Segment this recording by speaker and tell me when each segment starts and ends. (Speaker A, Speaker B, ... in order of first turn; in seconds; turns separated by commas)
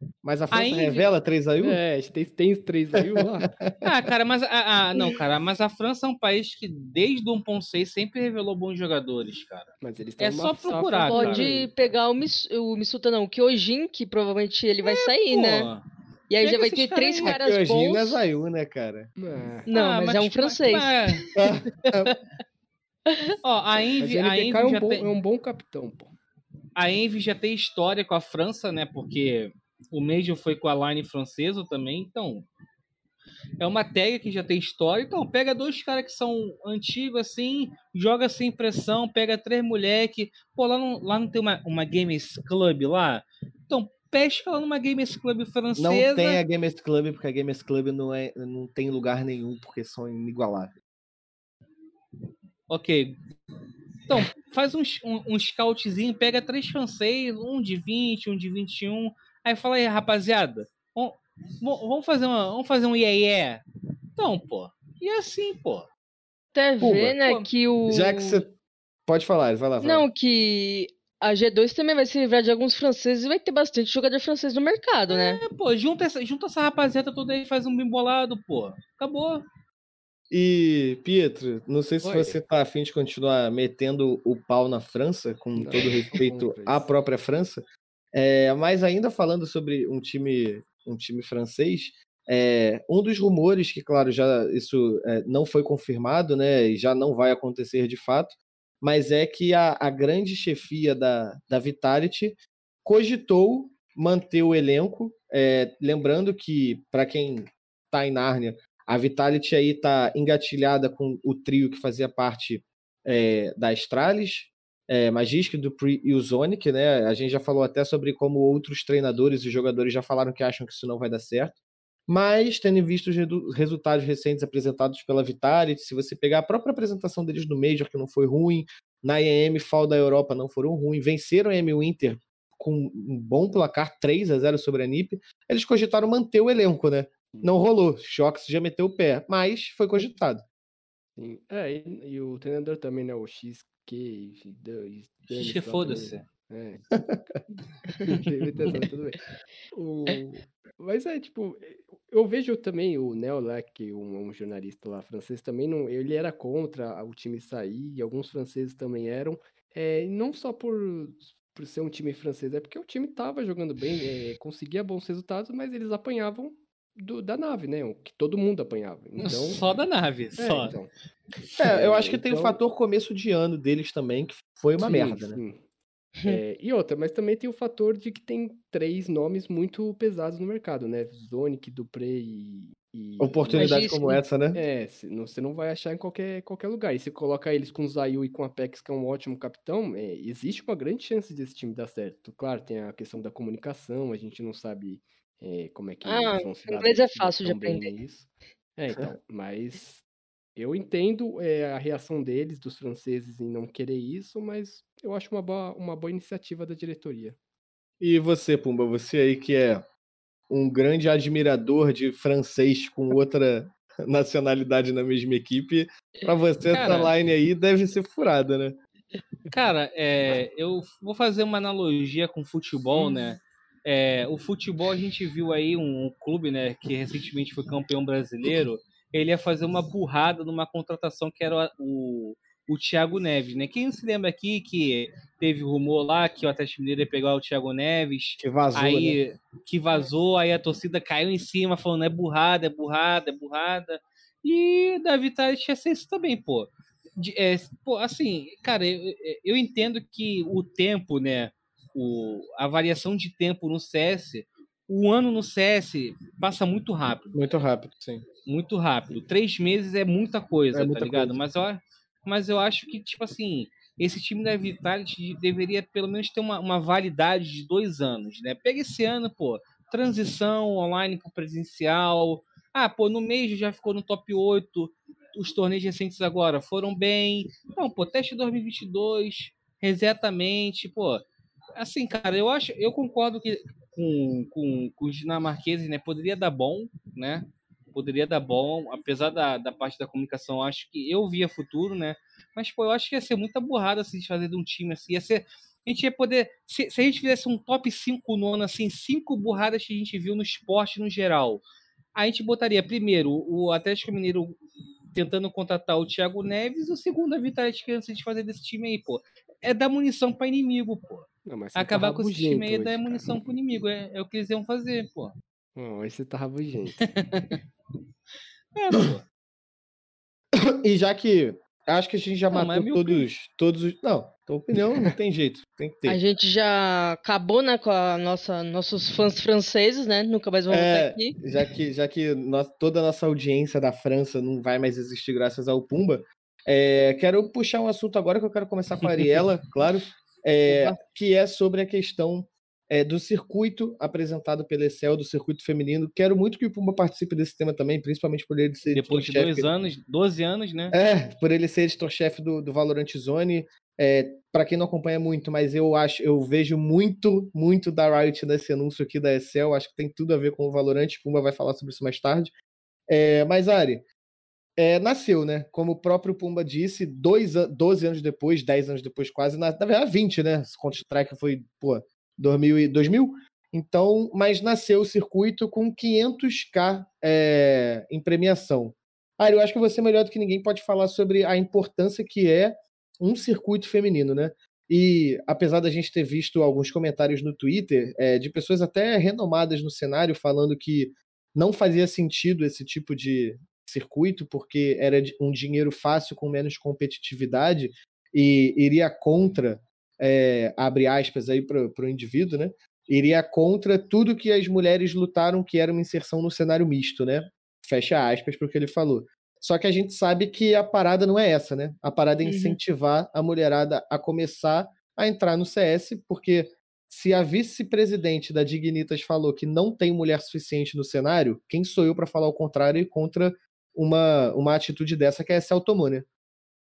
Speaker A: 0.2-1.8, Speaker B: 0.5-1.1, Speaker C: 1.6-3.5, Speaker A: 3.0-3.9, Speaker B: 3.8-11.5, Speaker C: 9.8-11.9, Speaker D: 11.1-15.7, Speaker B: 14.8-15.8, Speaker D: 16.3-18.2, Speaker B: 16.4-17.4, Speaker A: 17.2-19.1, Speaker C: 19.2-19.7, Speaker D: 19.7-21.3, Speaker B: 19.7-21.3, Speaker A: 21.4-22.2, Speaker D: 21.9-22.1, Speaker D: 23.1-23.4, Speaker B: 23.4-25.1, Speaker C: 24.0-26.1, Speaker B: 26.8-32.5, Speaker B: 33.6-46.4, Speaker A: 45.8-50.7, Speaker B: 52.7-53.1, Speaker B: 54.1-63.6, Speaker B: 64.2-65.9, Speaker D: 66.5-68.4, Speaker A: 66.8-67.2, Speaker A: 67.9-68.5, Speaker A: 69.1-70.1, Speaker D: 69.8-75.4, Speaker B: 75.1-79.5, Speaker A: 80.3-140.4, Speaker C: 82.0-82.4, Speaker C: 85.5-86.9, Speaker C: 141.2-146.9, Speaker B: 145.3-146.2, Speaker C: 148.1-149.2, Speaker C: 149.7-169.6, Speaker B: 169.2-170.8, Speaker C: 170.4-170.9, Speaker A: 171.6-175.4, Speaker C: 171.6-172.6, Speaker C: 174.8-175.6, Speaker C: 176.3-183.9, Speaker A: 183.2-184.6, Speaker D: 183.5-184.2, Speaker C: 184.5-200.0, Speaker D: 196.1-197.9, Speaker C: 200.6-207.4, Speaker A: 208.0-209.8, Speaker A: 210.5-218.8, Speaker B: 216.7-217.1, Speaker B: 219.5-257.4, Speaker A: 238.4-239.2, Speaker A: 257.3-258.2, Speaker B: 258.5-281.2, Speaker A: 260.7-261.4, Speaker B: 281.8-301.6, Speaker B: 302.1-304.6, Speaker B: 305.1-315.4, Speaker C: 311.5-313.4, Speaker C: 315.8-317.0, Speaker B: 317.0-317.6, Speaker B: 318.8-319.2, Speaker A: 320.6-326.2, Speaker B: 322.5-323.3, Speaker D: 326.1-331.4, Speaker A: 330.7-349.7, Speaker B: 339.0-339.4, Speaker D: 340.7-341.0, Speaker B: 348.9-351.0, Speaker A: 350.9-362.5, Speaker A: 363.1-364.1, Speaker A: 364.8-426.3, Speaker D: 412.4-412.8